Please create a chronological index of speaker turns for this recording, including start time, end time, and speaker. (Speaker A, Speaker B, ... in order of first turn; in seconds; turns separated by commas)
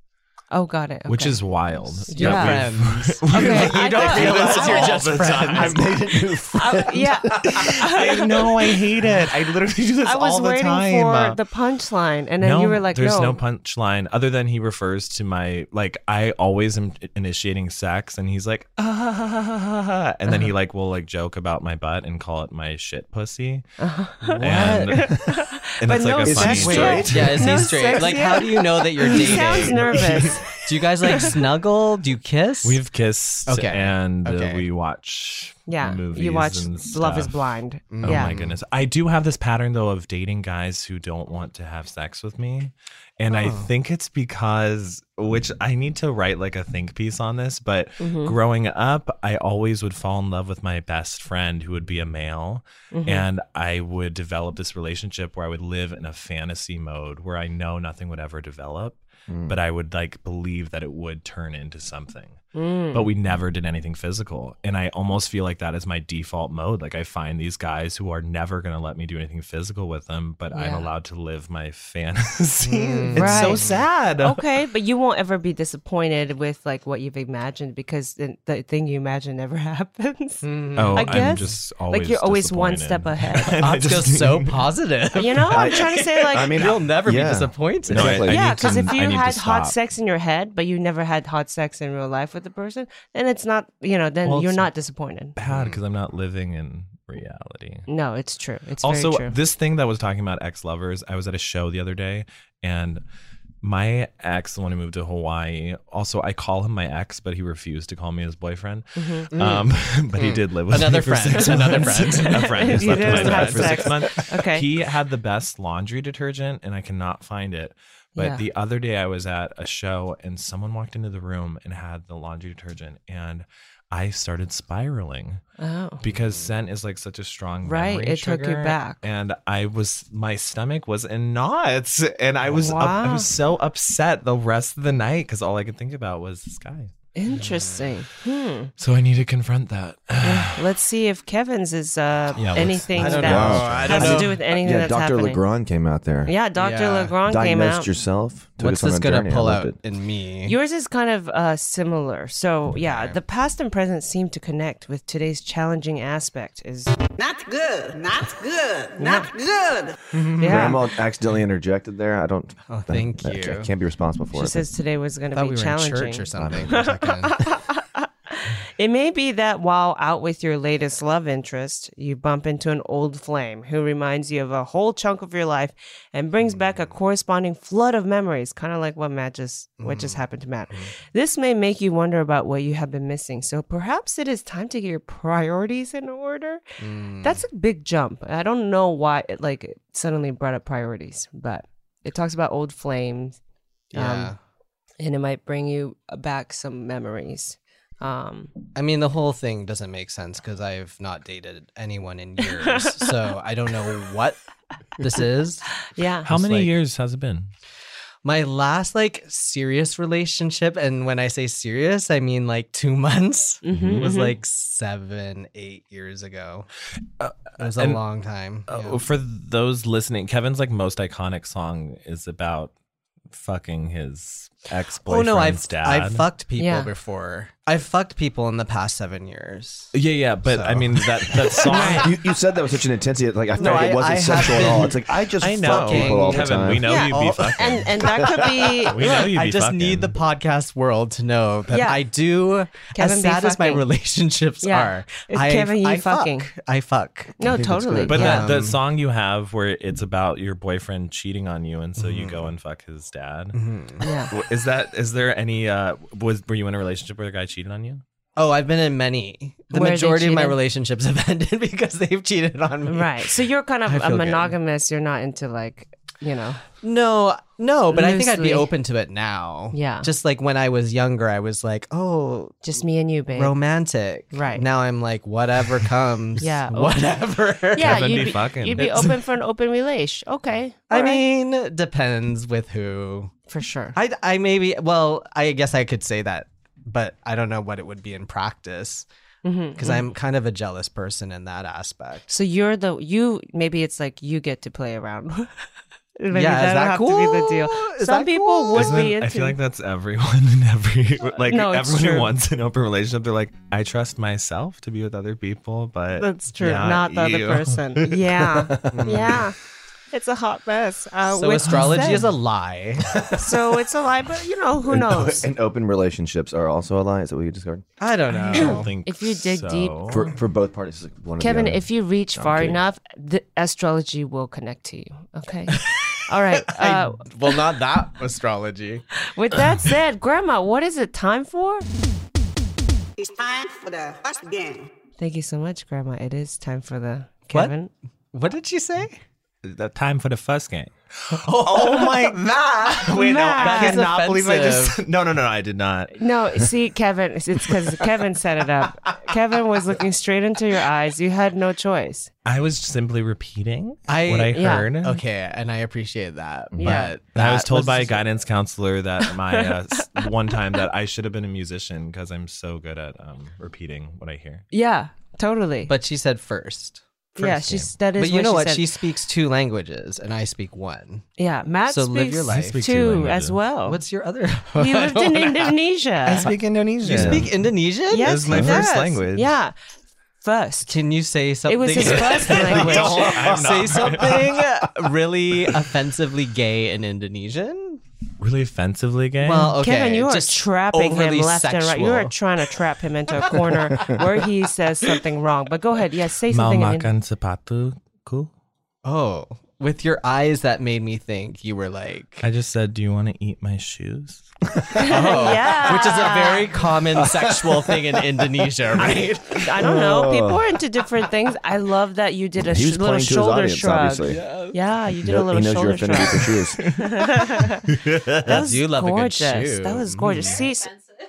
Speaker A: 0.5-1.4, Speaker B: 1.1-6.2, Speaker C: 2.1-6.0, Speaker A: 2.1-2.6, Speaker A: 3.3-4.9, Speaker D: 5.5-7.8, Speaker A: 6.5-8.5, Speaker B: 7.5-11.4, Speaker A: 10.0-13.4, Speaker B: 12.4-23.6, Speaker A: 23.8-30.4, Speaker C: 24.2-25.1, Speaker B: 24.4-27.7, Speaker D: 26.2-27.4, Speaker C: 26.5-32.8, Speaker B: 29.1-30.5, Speaker B: 32.6-37.4, Speaker C: 33.5-34.6, Speaker A: 35.7-38.4, Speaker C: 37.9-38.6, Speaker B: 38.0-62.4, Speaker C: 43.3-43.7, Speaker A: 48.0-48.4, Speaker A: 52.9-53.3, Speaker D: 59.3-59.6, Speaker A: 62.5-63.1, Speaker B: 62.9-74.5, Speaker A: 70.5-70.9, Speaker C: 72.6-73.8, Speaker A: 73.1-73.6, Speaker A: 74.2-83.5, Speaker C: 80.4-81.6, Speaker B: 80.8-84.7, Speaker C: 83.6-88.3, Speaker A: 85.2-86.6, Speaker D: 85.5-88.7, Speaker B: 87.9-89.8, Speaker A: 88.3-95.3, Speaker B: 94.2-94.7, Speaker B: 95.4-97.9, Speaker C: 95.5-95.8, Speaker A: 97.9-99.3, Speaker B: 98.8-103.0, Speaker B: 103.6-125.4, Speaker A: 109.0-109.3, Speaker C: 109.3-114.0, Speaker A: 112.3-114.7, Speaker A: 118.2-118.4, Speaker A: 125.6-126.0, Speaker B: 126.0-136.9, Speaker C: 126.2-126.5, Speaker A: 127.6-129.0, Speaker A: 132.6-133.3, Speaker A: 137.2-138.7, Speaker C: 137.3-137.9, Speaker B: 138.8-140.6, Speaker A: 140.2-145.4, Speaker B: 142.4-144.2, Speaker C: 143.0-144.4, Speaker D: 143.1-146.3, Speaker A: 146.2-147.9, Speaker C: 146.6-147.2, Speaker D: 147.3-149.8, Speaker C: 148.6-150.6, Speaker A: 150.5-157.0, Speaker C: 152.8-153.2, Speaker E: 157.2-160.0, Speaker A: 159.0-159.3, Speaker C: 160.1-160.8, Speaker D: 160.4-164.6, Speaker A: 160.4-160.8, Speaker C: 162.7-163.7, Speaker A: 164.3-186.6, Speaker C: 165.3-167.4, Speaker D: 166.3-166.8, Speaker C: 176.4-176.9, Speaker C: 179.8-180.9, Speaker C: 186.8-187.4, Speaker A: 187.2-193.4, Speaker C: 193.9-194.4, Speaker A: 193.9-194.3, Speaker A: 195.0-198.5, Speaker C: 198.8-204.4, Speaker C: 205.0-206.7, Speaker A: 205.8-206.3, Speaker B: 206.3-207.5, Speaker C: 208.2-216.7, Speaker A: 213.6-214.3, Speaker B: 213.7-214.0, Speaker B: 217.2-218.0, Speaker C: 217.6-219.0, Speaker B: 218.7-222.7, Speaker B: 223.3-226.3, Speaker C: 225.1-229.9, Speaker A: 226.6-226.9, Speaker B: 229.9-232.1, Speaker C: 230.4-232.0, Speaker A: 231.7-232.1, Speaker D: 231.8-237.0, Speaker C: 233.6-237.6, Speaker B: 233.6-233.9, Speaker B: 235.4-238.1, Speaker A: 236.8-239.2, Speaker D: 238.2-238.7, Speaker B: 238.9-240.2, Speaker C: 239.0-247.5, Speaker A: 241.7-242.0, Speaker A: 242.9-243.8, Speaker A: 244.6-246.5, Speaker A: 247.4-248.5, Speaker D: 247.4-248.2, Speaker C: 248.1-248.8, Speaker B: 248.1-253.6, Speaker C: 252.0-252.5, Speaker C: 253.5-254.1, Speaker A: 254.0-254.3, Speaker B: 254.3-258.0, Speaker C: 258.4-264.5, Speaker A: 259.7-260.6, Speaker A: 262.9-266.6, Speaker C: 266.8-272.6, Speaker A: 267.9-268.7, Speaker A: 269.7-270.1, Speaker A: 272.6-273.5, Speaker C: 273.3-279.2, Speaker A: 274.3-274.6, Speaker A: 276.4-277.1, Speaker A: 277.7-281.2, Speaker B: 277.8-279.2, Speaker C: 280.9-283.3, Speaker A: 283.5-284.0, Speaker C: 283.9-289.1, Speaker A: 289.4-290.1, Speaker C: 289.8-292.3, Speaker A: 292.3-295.6, Speaker A: 296.2-299.6, Speaker C: 296.3-299.1, Speaker B: 298.8-308.7, Speaker A: 301.5-302.3, Speaker A: 306.2-309.6, Speaker C: 308.9-309.4, Speaker A: 310.1-312.3, Speaker C: 311.3-313.5, Speaker A: 313.4-315.5, Speaker D: 314.9-317.9, Speaker C: 318.0-318.9, Speaker B: 318.4-320.3, Speaker A: 318.5-320.0, Speaker D: 320.1-322.8, Speaker A: 321.4-327.3, Speaker C: 326.7-329.1, Speaker A: 329.2-331.9, Speaker E: 333.2-334.9, Speaker A: 335.2-337.9, Speaker C: 338.3-339.2, Speaker B: 339.6-346.2, Speaker C: 341.3-342.4, Speaker A: 343.1-344.0, Speaker C: 343.6-345.0, Speaker A: 346.1-352.3, Speaker B: 352.5-355.2, Speaker C: 354.1-358.2, Speaker A: 354.5-354.9, Speaker D: 356.7-357.0, Speaker A: 356.8-357.1, Speaker B: 357.4-364.6, Speaker A: 359.5-360.2, Speaker A: 364.7-365.9, Speaker C: 365.9-367.6, Speaker A: 367.4-368.9, Speaker C: 368.1-371.3, Speaker A: 371.4-374.0, Speaker C: 371.9-372.9, Speaker B: 372.5-373.6, Speaker C: 373.9-375.7, Speaker A: 374.8-376.5, Speaker C: 376.3-379.0, Speaker B: 376.3-377.5, Speaker D: 377.1-377.5, Speaker A: 378.1-379.7, Speaker B: 378.2-379.5, Speaker A: 380.4-380.9, Speaker C: 380.9-388.0, Speaker A: 381.7-383.4, Speaker B: 382.5-384.6, Speaker B: 388.4-389.8, Speaker C: 389.4-392.3, Speaker A: 389.8-397.1, Speaker C: 393.4-394.2, Speaker B: 396.5-398.5, Speaker C: 399.0-402.4, Speaker B: 402.4-404.5, Speaker A: 404.9-406.7, Speaker C: 405.0-409.7, Speaker D: 407.2-408.1, Speaker A: 409.5-417.9, Speaker D: 409.8-410.6, Speaker D: 412.6-414.4, Speaker C: 414.2-414.8, Speaker D: 415.2-417.0, Speaker B: 416.9-417.3, Speaker B: 417.9-418.4, Speaker C: 418.4-420.6, Speaker A: 418.4-420.9